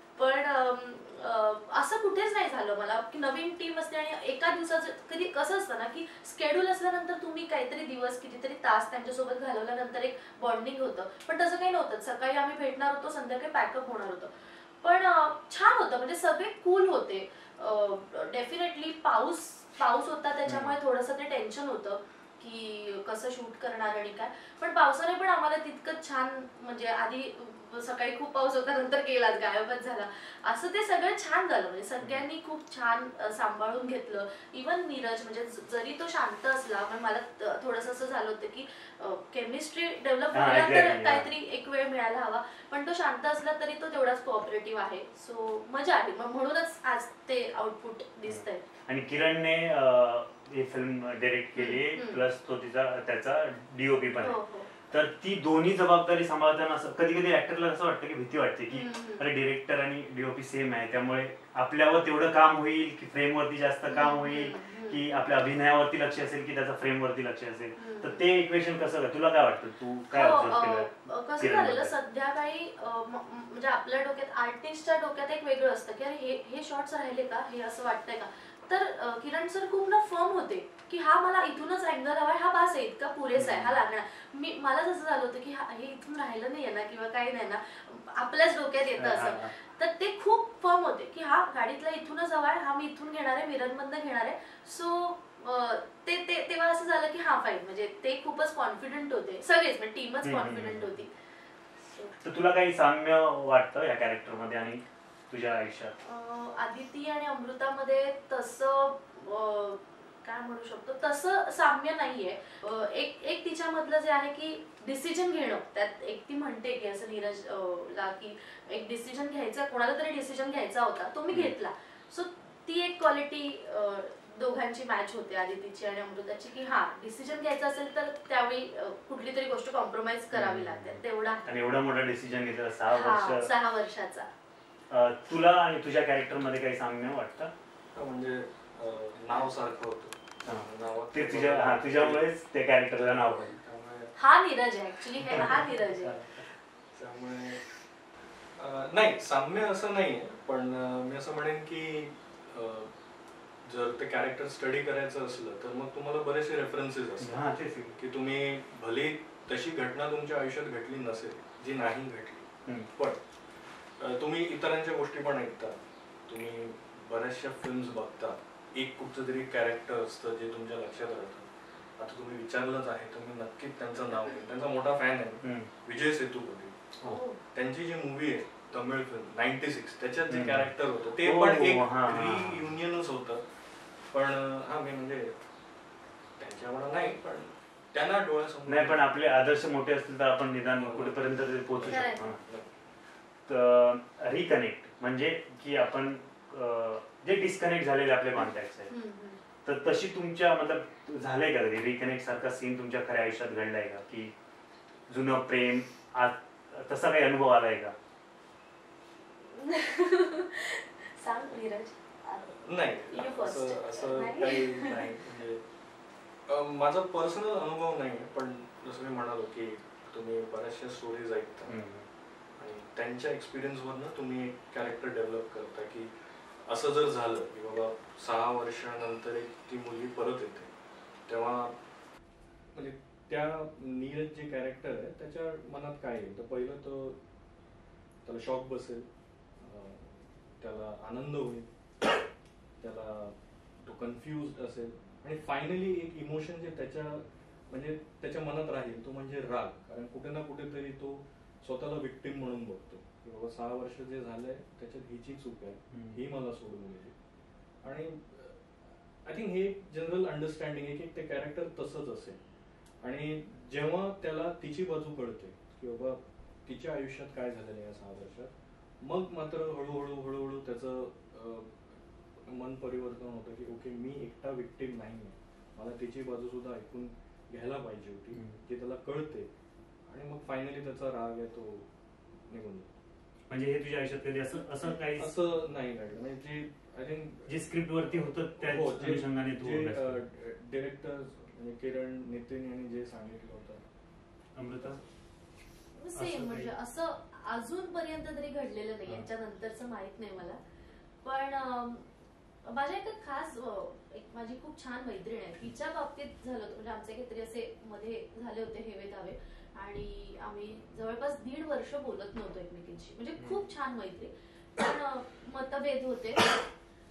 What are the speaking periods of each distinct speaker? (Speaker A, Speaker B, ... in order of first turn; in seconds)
Speaker A: 0.2-48.6, 51.5-52.2, 54.2-54.7, 58.7-59.2, 63.9-65.0, 67.8-68.2, 70.1-101.1, 106.0-131.5, 132.9-134.3, 144.1-146.2, 177.0-177.4, 191.8-192.2, 198.4-199.4, 209.4-215.0, 295.9-300.6, 301.2-302.1, 302.6-316.6
Speaker B: 20.4-20.8, 40.3-41.3, 48.2-71.9, 83.3-83.8, 89.0-89.5, 100.2-101.0, 102.2-105.9, 130.3-133.5, 134.9-137.5, 140.4-143.5, 145.2-146.2, 157.2-158.0, 175.4-175.7, 180.3-180.7, 181.2-182.7, 188.7-192.4, 193.5-198.9, 199.6-204.3, 205.1-207.9, 221.7-222.1, 255.9-256.2, 278.3-278.6, 283.5-285.4, 287.5-290.2, 294.6-295.0, 296.1-296.7
Speaker C: 137.9-142.3, 142.9-144.1, 146.9-147.7, 148.5-152.9, 153.6-163.2, 164.0-176.8, 177.5-183.4, 184.1-185.4, 186.4-189.1, 190.7-192.7, 212.5-215.6, 216.5-221.8, 222.6-226.1, 226.6-230.7, 231.3-231.8, 232.7-237.2, 238.2-242.1, 242.8-257.1, 257.8-262.4, 263.0-279.5, 280.1-282.9, 285.1-293.9